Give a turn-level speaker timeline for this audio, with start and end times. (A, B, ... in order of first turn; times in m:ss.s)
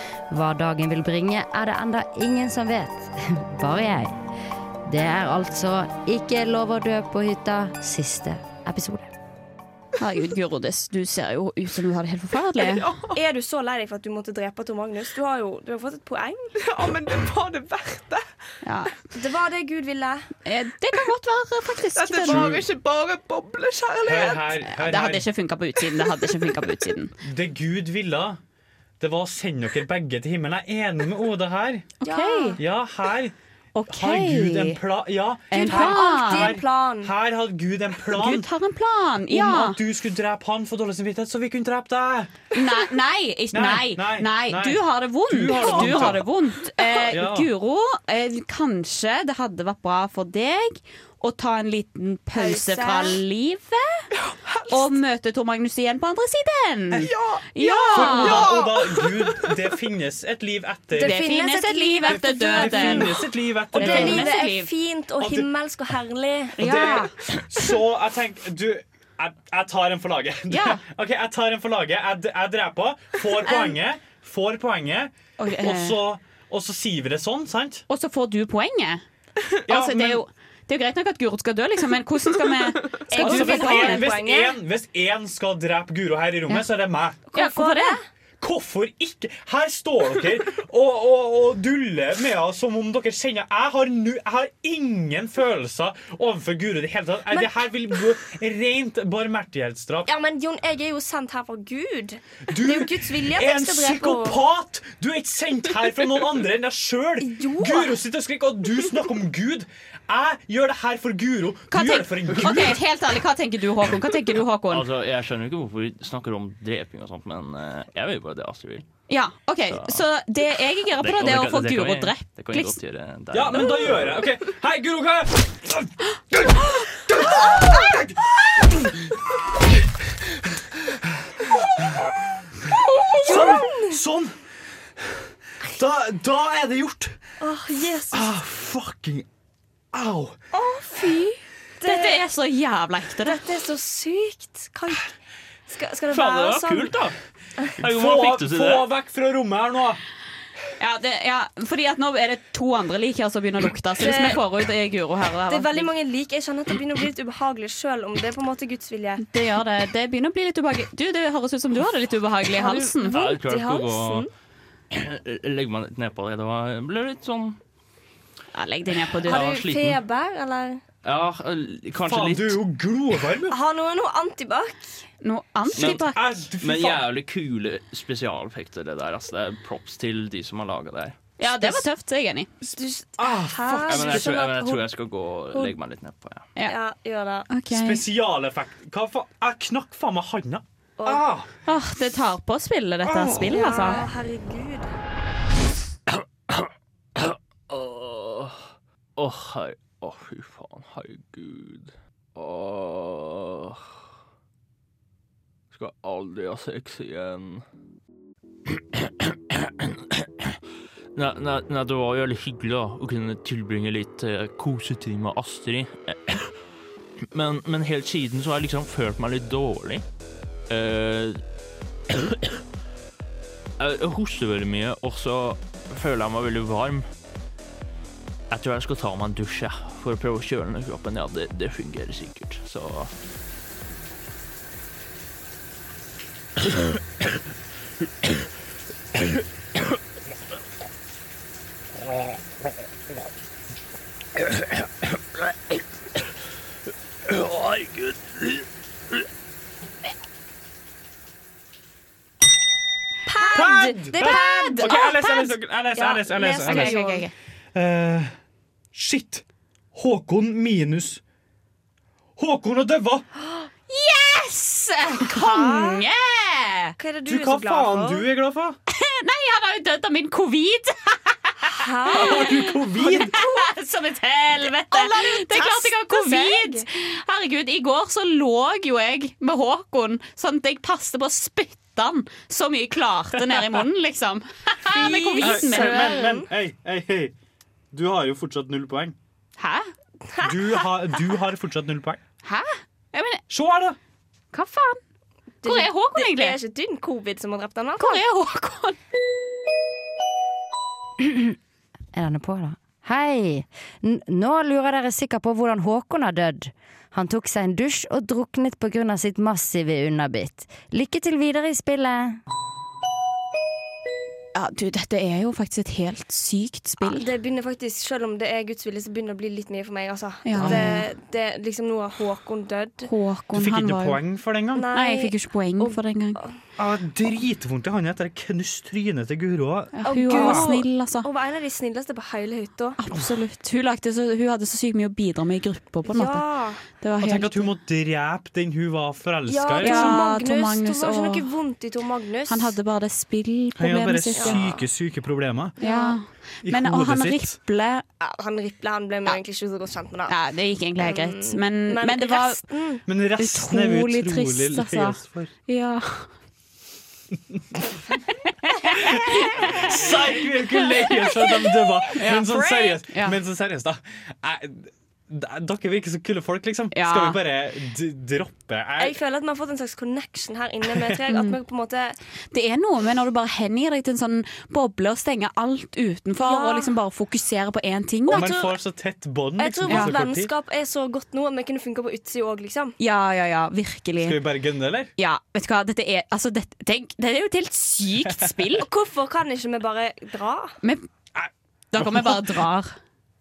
0:00.3-0:04.1 A
0:04.9-0:09.1 A
0:10.0-0:13.0 B
0:12.6-0:13.1 C
0:13.1-0:16.5 D
0:16.6-0:18.3 C
0:18.6-0:19.0 B
0:19.1-0:20.3 D
0:20.5-0:22.6 B
0:22.0-0:24.5 C
0:22.1-0:22.7 E
0:24.0-0:25.3 E
0:24.6-0:27.1 B
0:27.2-0:28.4 E
0:29.0-0:32.0 E
0:32.0-0:32.6 B
0:32.0-0:32.6 D
0:32.6-0:33.4 E
0:33.8-0:34.8 B
0:33.9-0:38.5 E
0:35.5-0:36.6 B
0:35.7-0:37.1 D
0:38.1-0:39.8 B
0:39.3-0:42.3 E
0:42.5-0:54.0 B
0:43.5-0:46.3 E
0:47.1-0:47.5 E
0:52.4-0:53.2 D
0:54.2-0:54.9 C
0:54.7-0:58.5 B
0:57.0-0:59.5 C
0:57.8-1:01.2 E
1:01.0-1:03.2 D
1:01.0-1:03.2 B
1:02.0-1:04.2 E
1:03.7-1:04.7 B
1:03.7-1:06.7 D
1:05.2-1:05.5 E
1:06.6-1:07.1 B
1:06.6-1:17.8 E
1:10.5-1:10.8 B
1:15.4-1:16.0 B
1:17.9-1:19.0 B
1:19.7-1:20.2 E
1:19.7-1:24.1 B
1:23.0-1:24.6 D
1:23.1-1:27.3 E
1:27.3-1:28.0 B
1:27.4-1:28.0 D
1:28.4-1:40.1 E
1:40.1-1:44.4 D
1:42.5-1:52.8 E
1:47.2-1:48.0 D
1:51.7-1:54.9 B
1:54.7-1:58.9 F
1:59.1-2:02.8 B
1:59.7-2:00.0 F
2:01.0-2:04.3 F
2:03.3-2:09.1 E
2:13.1-2:14.0 D
2:13.2-2:14.3 E
2:15.6-2:17.2 E
2:17.4-2:18.3 D
2:18.1-2:19.3 E
2:19.9-2:20.4 E
2:20.5-2:22.1 D
2:21.8-2:23.4 B
2:23.3-2:25.0 D
2:25.7-2:26.9 D
2:26.1-2:27.2 F
2:27.7-2:30.0 E
2:27.8-2:28.9 F
2:30.8-2:35.9 B
2:34.0-2:34.4 D
2:35.5-2:39.2 D
2:39.2-2:43.2 B
2:42.6-2:44.3 D
2:43.1-2:44.2 F
2:44.9-2:47.6 F
2:48.5-2:49.5 B
2:49.2-2:50.0 F
2:49.3-2:50.8 D
2:51.0-2:52.6 F
2:52.0-2:53.6 E
2:53.5-2:55.0 D
2:55.2-2:56.2 B
2:55.7-2:57.1 E
2:55.8-3:01.2 F
3:01.4-3:02.5 B
3:01.6-3:01.9 E
3:02.6-3:04.5 E
3:02.7-3:04.8 D
3:03.9-3:06.5 F
3:06.6-3:07.5 D
3:07.5-3:08.0 B
3:07.6-3:11.5 E
3:11.6-3:14.1 B
3:13.0-3:13.5 E
3:13.5-3:14.9 D
3:17.2-3:18.6 F
3:19.2-3:23.8 F
3:25.7-3:27.6 F
3:29.3-3:30.5 F
3:31.1-3:36.5 F
3:37.3-3:40.0 F
3:40.7-3:41.4 F
3:42.1-3:42.5 F
3:43.8-3:47.0 F
3:48.5-3:53.1 F
4:07.3-4:08.5 F
4:13.3-4:14.8 D
4:13.4-4:15.6 B
4:13.5-4:17.0 E
4:16.0-4:17.2 D
4:16.1-4:17.3 B
4:17.7-4:18.3 E
4:18.9-4:21.2 E
4:22.4-4:23.2 E
4:23.9-4:27.0 B
4:25.3-4:26.0 D
4:27.0-4:28.3 D
4:27.3-4:28.8 E
4:28.9-4:46.3 B
4:31.7-4:32.2 D
4:32.1-4:33.4 E
4:34.9-4:36.9 D
4:44.9-4:46.5 D
4:45.4-4:47.4 E
4:47.9-4:49.2 E
4:49.6-4:49.9 B
4:50.4-4:52.2 E
4:52.4-4:53.4 B
4:53.5-4:54.0 E
4:54.5-4:55.0 B
4:55.6-4:58.2 D
4:55.6-4:56.6 B
4:58.0-4:59.0 B
5:01.2-5:01.6 A
5:02.1-5:12.4 A
5:14.6-5:17.3 B
5:17.0-5:23.1 D
5:20.4-5:21.1 B
5:20.5-5:21.0 E
5:23.0-5:24.2 B
5:23.5-5:24.9 E
5:24.8-5:26.6 D
5:24.9-5:26.4 B
5:26.8-5:30.7 E
5:30.0-5:31.3 B
5:30.0-5:33.0 D
5:33.0-5:37.7 B
5:36.2-5:36.8 D
5:37.2-5:40.3 E
5:39.5-5:42.6 D
5:39.8-5:41.5 B
5:42.5-5:44.8 B
5:43.8-5:45.8 E
5:44.4-5:44.7 D
5:45.8-5:48.0 B
5:45.8-5:46.2 D
5:46.6-5:47.6 E
5:48.2-5:50.3 D
5:50.3-5:52.6 B
5:51.0-5:53.0 D
5:53.1-5:55.5 E
5:53.4-5:56.3 B
5:58.5-6:00.2 B
5:59.0-6:09.2 E
6:00.9-6:03.4 B
6:06.9-6:07.4 B
6:09.0-6:12.2 D
6:10.8-6:11.2 E
6:11.3-6:11.6 B
6:12.5-6:18.5 B
6:16.5-6:16.8 D
6:18.3-6:20.5 E
6:18.4-6:18.8 D
6:19.6-6:23.0 D
6:19.9-6:20.2 B
6:23.0-6:24.4 B
6:24.2-6:25.1 E
6:25.2-6:28.9 B
6:28.8-6:30.7 D
6:31.4-6:32.6 E
6:31.9-6:33.0 B